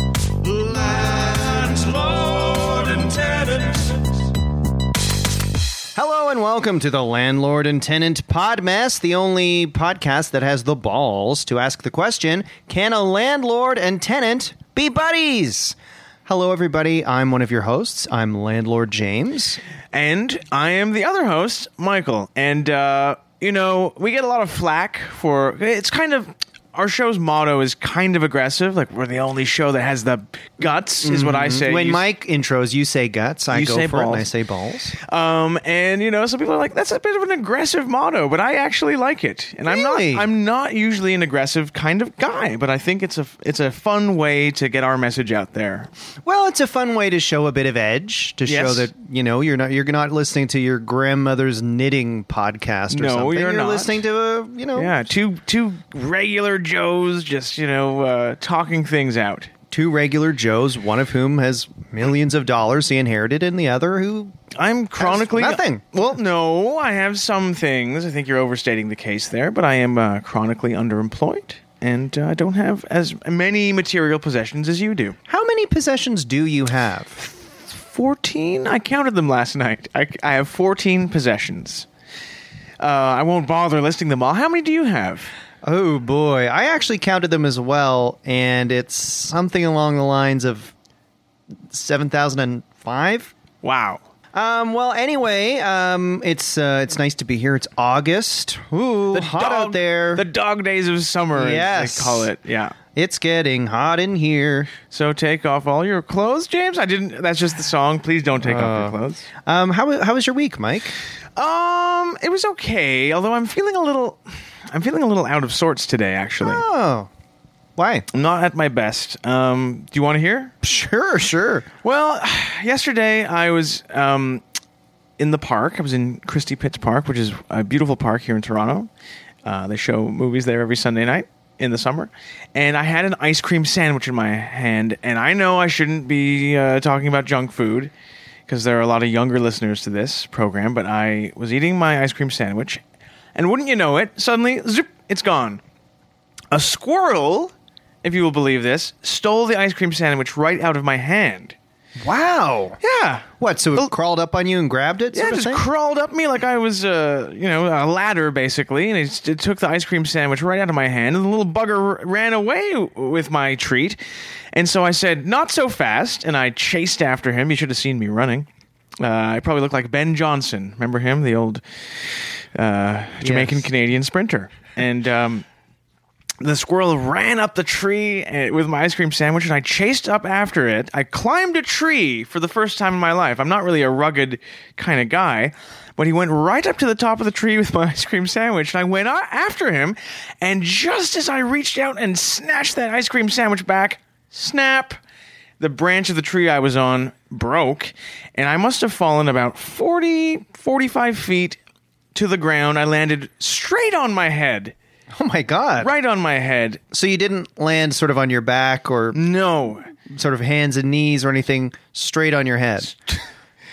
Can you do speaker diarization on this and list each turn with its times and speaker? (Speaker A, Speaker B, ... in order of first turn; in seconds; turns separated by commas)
Speaker A: 0.5-3.8, Speaker B: 6.0-19.6, Speaker A: 19.9-32.0, Speaker B: 31.0-35.0, Speaker A: 33.5-34.3, Speaker A: 35.0-45.9, Speaker B: 39.6-40.3, Speaker B: 46.2-55.0, Speaker A: 48.5-48.9, Speaker A: 52.9-54.0, Speaker A: 54.8-59.5, Speaker B: 59.7-64.3, Speaker A: 64.5-75.2, Speaker B: 65.0-65.8, Speaker B: 75.3-77.2, Speaker A: 77.7-81.9, Speaker A: 82.8-85.3, Speaker B: 85.7-90.7, Speaker B: 91.7-93.3, Speaker A: 93.6-94.0, Speaker B: 94.3-100.2, Speaker A: 99.1-102.8, Speaker B: 101.3-102.3, Speaker B: 103.0-104.8, Speaker A: 104.9-109.3, Speaker B: 108.4-111.0, Speaker A: 111.4-114.2, Speaker A: 114.7-116.7, Speaker B: 116.4-117.1, Speaker B: 117.8-118.1, Speaker A: 118.1-120.5, Speaker B: 120.6-121.7, Speaker A: 121.8-124.4, Speaker A: 125.2-128.9, Speaker A: 129.4-137.9, Speaker A: 138.5-142.8, Speaker A: 143.3-145.6, Speaker A: 146.5-147.5, Speaker A: 148.0-151.6, Speaker B: 152.0-152.8, Speaker A: 152.8-153.9, Speaker B: 153.4-155.7, Speaker A: 155.1-164.0, Speaker A: 164.5-168.5, Speaker A: 169.0-175.4, Speaker B: 173.2-173.6, Speaker A: 176.4-195.0, Speaker A: 195.6-201.6, Speaker A: 202.2-204.7, Speaker B: 205.1-205.9, Speaker A: 205.8-206.8, Speaker B: 206.9-209.2, Speaker A: 209.1-209.8, Speaker B: 210.1-212.9